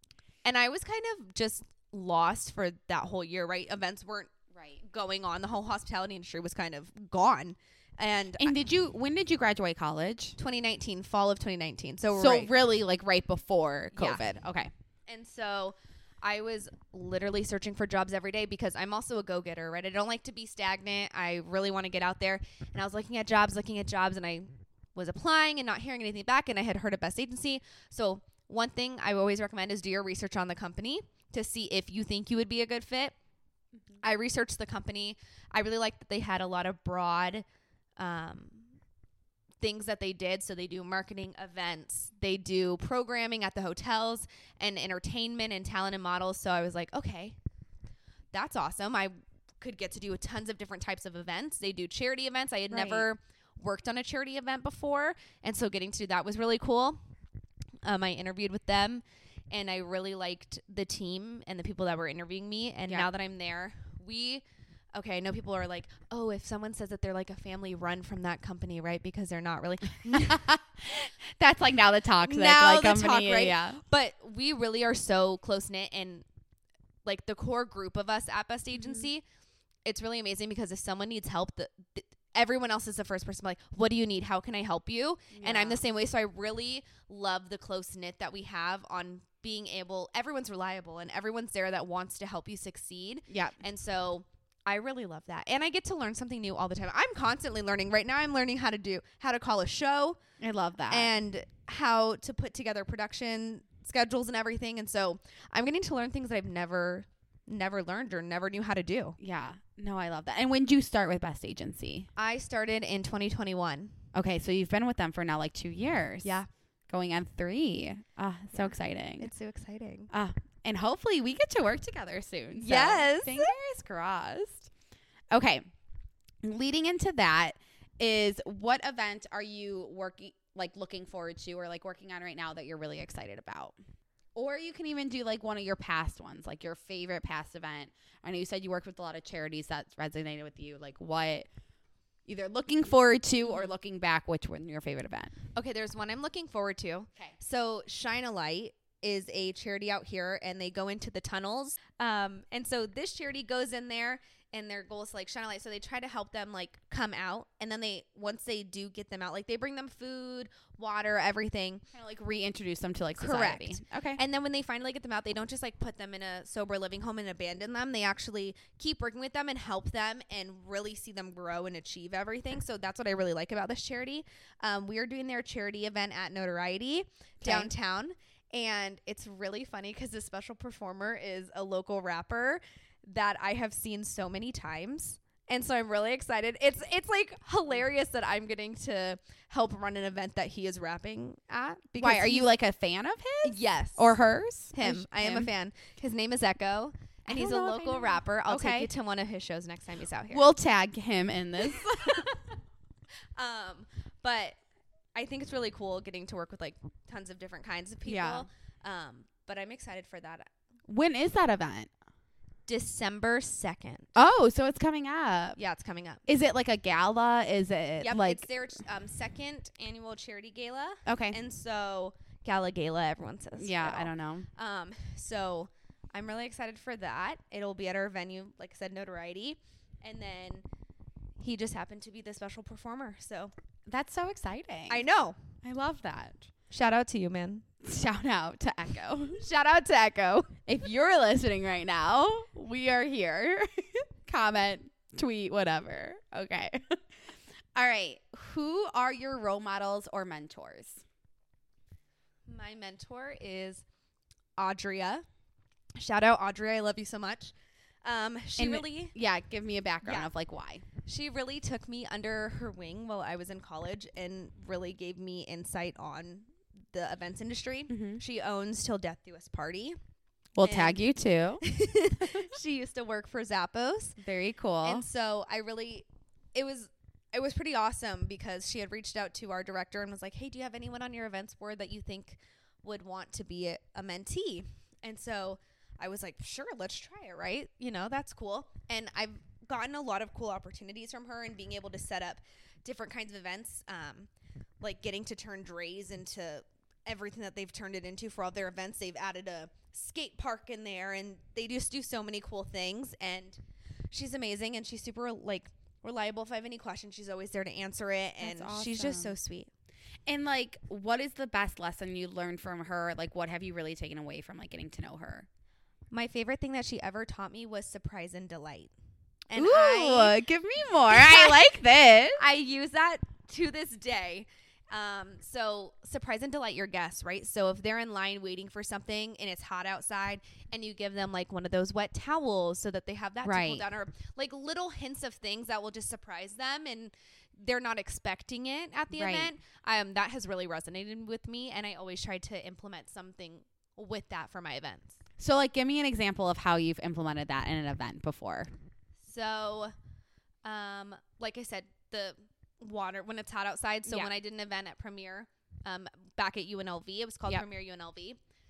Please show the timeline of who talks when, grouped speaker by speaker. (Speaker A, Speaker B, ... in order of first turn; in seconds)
Speaker A: 0.5-8.5, 10.4-12.5, 13.9-14.2, 15.1-33.1, 34.0-37.5, 38.0-38.7, 39.6-47.4, 48.3-57.0, 57.8-70.4, 72.2-76.2, 77.0-79.2, 79.9-100.2, 100.9-109.2, 112.2-113.9, 118.5-120.1, 122.6-123.5, 145.6-161.8, 163.2-192.5, 193.4-194.2, 194.7-200.5, 201.6-202.4, 203.4-204.6, 205.2-210.5, 212.7-214.1, 215.6-216.2, 218.0-230.6, 231.4-233.5, 234.9-235.4, 236.7-237.7, 239.4-240.6, 252.5-253.8, 254.6-255.2, 256.0-259.1, 260.0-260.3, 261.1-270.0, 270.6-271.0, 271.6-274.2, 274.8-294.3, 294.8-303.6, 304.1-309.7, 316.1-318.9, 319.5-320.4, 321.1-321.7, 322.4-345.2, 349.2-349.9, 350.6-358.4
Speaker B: 4.5-4.8, 8.4-10.4, 12.1-14.7, 52.7-53.1, 70.1-73.8, 78.8-79.1, 85.3-85.8, 93.3-93.6, 100.4-101.1, 109.2-112.1, 114.1-116.3, 116.9-119.3, 120.1-124.7, 125.3-125.6, 126.4-133.8, 134.3-141.5, 142.3-145.3, 161.9-164.2, 177.4-177.7, 192.0-195.5, 197.3-198.9, 200.3-202.3, 208.1-208.5, 210.9-211.9, 214.2-215.6, 216.3-218.5, 221.1-221.4, 223.6-224.5, 233.9-235.0, 235.6-236.5, 237.8-239.4, 240.7-251.0, 258.6-260.8, 267.9-268.2, 270.6-271.6, 274.2-275.1, 308.4-309.3, 310.3-315.5, 319.6-322.4, 333.4-333.8, 339.1-339.5, 345.4-348.7, 354.1-354.3